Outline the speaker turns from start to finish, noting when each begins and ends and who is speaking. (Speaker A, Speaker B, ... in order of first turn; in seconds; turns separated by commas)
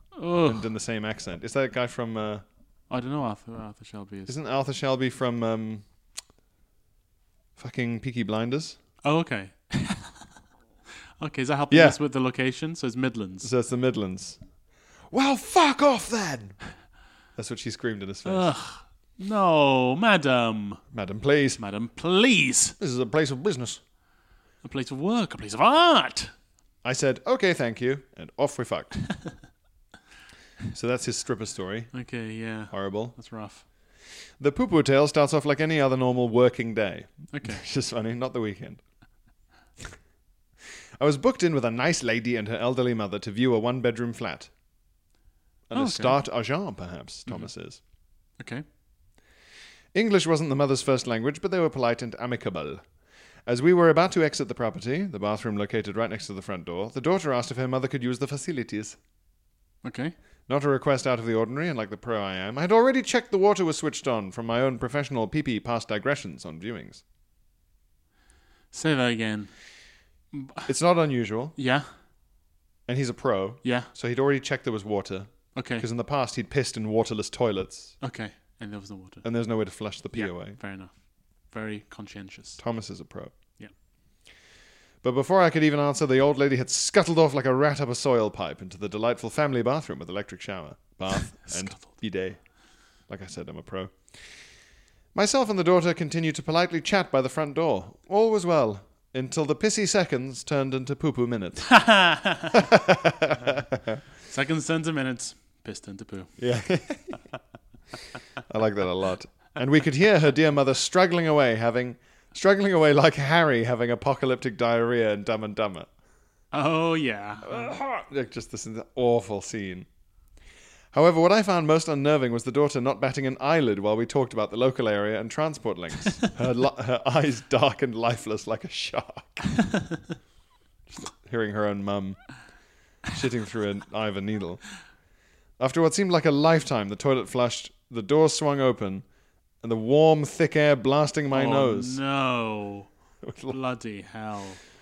Speaker A: 0.2-0.7, Speaker B: 0.5-2.4, Speaker A: 2.9-4.3, Speaker B: 4.3-5.8, Speaker B: 7.6-8.8, Speaker A: 9.1-10.2, Speaker A: 11.2-13.5, Speaker B: 11.7-12.0, Speaker B: 13.4-14.4, Speaker B: 15.1-16.6, Speaker B: 17.4-18.5, Speaker A: 18.2-20.8, Speaker B: 20.9-21.6, Speaker A: 21.6-22.7, Speaker B: 22.8-23.8, Speaker A: 24.6-26.3, Speaker B: 26.8-29.0, Speaker B: 30.7-31.9, Speaker A: 31.9-33.6, Speaker B: 32.7-33.2, Speaker B: 34.4-38.8, Speaker A: 37.3-37.6, Speaker B: 41.0-44.5, Speaker B: 45.7-47.8, Speaker A: 45.7-46.2, Speaker B: 49.9-52.8, Speaker B: 53.5-59.0, Speaker A: 59.8-60.1, Speaker B: 60.5-67.0, Speaker A: 68.7-69.5, Speaker A: 70.3-70.7, Speaker B: 70.7-71.5, Speaker A: 71.6-71.9, Speaker B: 72.9-78.0, Speaker A: 73.6-73.9, Speaker A: 75.5-75.9, Speaker A: 78.0-79.2, Speaker B: 79.2-80.6, Speaker A: 80.1-80.9, Speaker A: 81.5-82.6, Speaker B: 82.6-83.3, Speaker B: 85.0-92.4, Speaker A: 91.1-91.9, Speaker B: 93.1-94.1, Speaker B: 95.1-104.0, Speaker A: 101.7-102.6, Speaker A: 104.3-106.3, Speaker B: 106.4-107.2, Speaker B: 108.5-115.9, Speaker A: 116.5-117.7, Speaker B: 117.4-119.9, Speaker B: 120.9-129.5, Speaker B: 131.0-132.4, Speaker B: 133.1-134.7, Speaker B: 135.6-139.1, Speaker B: 139.6-142.0, Speaker A: 141.3-142.9, Speaker B: 143.2-143.6, Speaker A: 143.5-144.6